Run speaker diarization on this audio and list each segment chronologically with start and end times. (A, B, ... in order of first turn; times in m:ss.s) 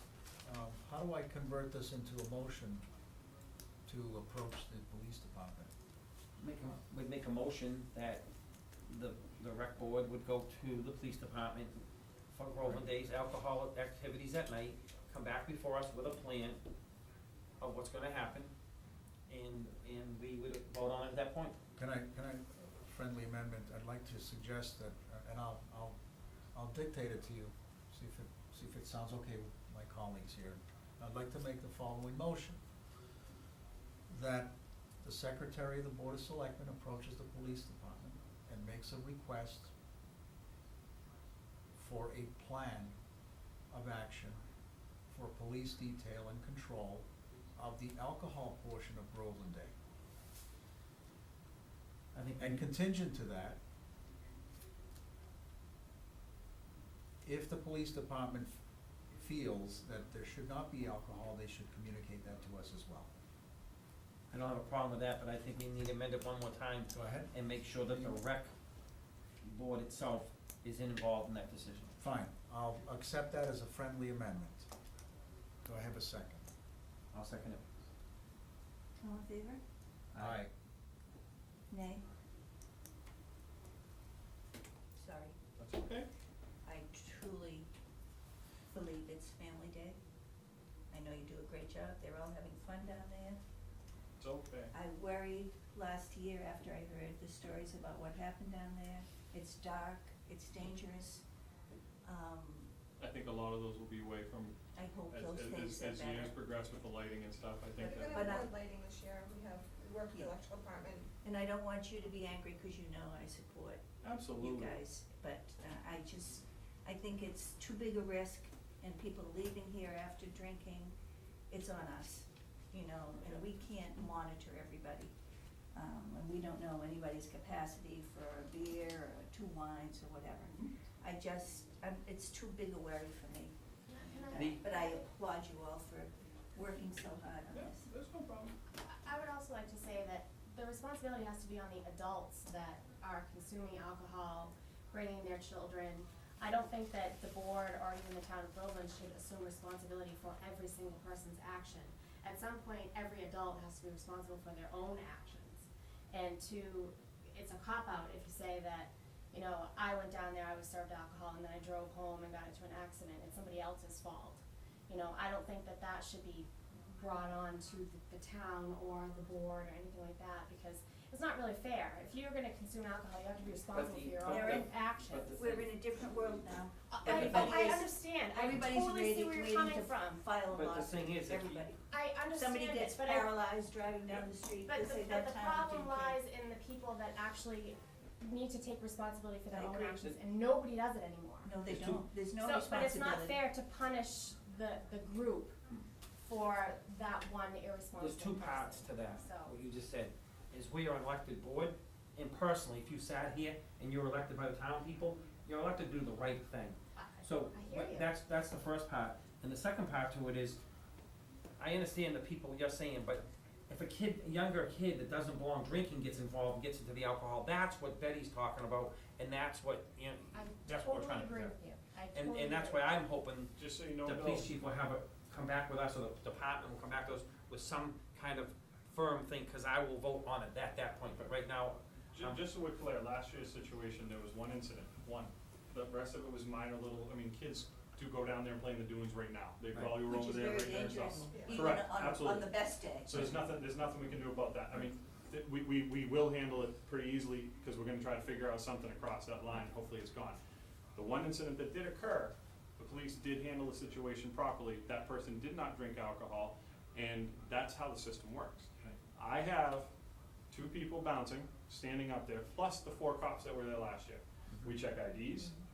0:00.4-0:02.8 A
0:03.9-0:05.7 A
0:06.4-0:08.2 B
0:08.9-0:16.6 B
0:17.6-0:18.5 B
0:19.3-0:21.6 B
0:21.8-0:26.0 A
0:26.5-0:32.6 A
0:34.1-0:34.5 A
0:35.0-0:39.7 A
0:41.8-0:43.0 A
0:43.7-0:44.4 A
0:45.1-0:47.0 A
0:47.6-0:49.8 A
0:52.1-0:52.6 B
0:52.4-0:53.6 A
0:57.2-0:58.6 A
0:59.1-1:03.1 A
1:04.3-1:08.5 B
1:06.9-1:07.3 A
1:07.9-1:08.2 A
1:09.4-1:11.9 B
1:12.0-1:14.7 A
1:15.6-1:16.5 A
1:17.1-1:17.6 B
1:19.0-1:19.6 C
1:20.1-1:20.4 B
1:20.2-1:20.5 A
1:21.7-1:22.1 C
1:25.0-1:25.4 C
1:25.6-1:26.1 D
1:26.6-1:27.7 C
1:28.7-1:30.0 C
1:30.9-1:33.4 C
1:34.2-1:34.7 D
1:34.7-1:41.2 C
1:42.0-1:42.7 C
1:43.0-1:44.6 D
1:44.8-1:46.4 C
1:45.1-1:48.3 D
1:47.8-1:51.1 E
1:48.1-1:48.6 C
1:50.1-1:50.4 C
1:51.2-1:53.8 C
1:54.0-1:54.8 D
1:54.4-2:00.9 C
2:01.5-2:05.1 C
2:05.7-2:13.6 C
2:13.9-2:15.1 F
2:14.3-2:17.9 C
2:14.3-2:14.6 B
2:17.5-2:18.6 D
2:18.8-2:55.3 F
2:53.7-2:55.7 B
2:54.3-2:54.7 C
2:55.3-3:06.2 C
2:56.9-3:00.2 F
2:57.1-2:57.6 B
3:00.5-3:01.6 B
3:01.9-3:03.3 F
3:04.6-3:11.6 F
3:09.5-3:10.1 C
3:11.4-3:13.4 C
3:11.7-3:12.0 B
3:12.4-3:15.6 F
3:16.2-3:19.6 F
3:18.0-3:30.6 B
3:27.0-3:28.1 F
3:31.6-3:41.5 B
3:40.3-3:42.9 F
3:42.1-3:43.5 B
3:43.6-3:44.5 D
3:44.0-3:52.4 B
3:52.1-4:10.4 D
3:59.7-4:00.0 B
4:00.0-4:03.3 C
4:11.0-4:19.9 D
4:20.5-4:25.5 D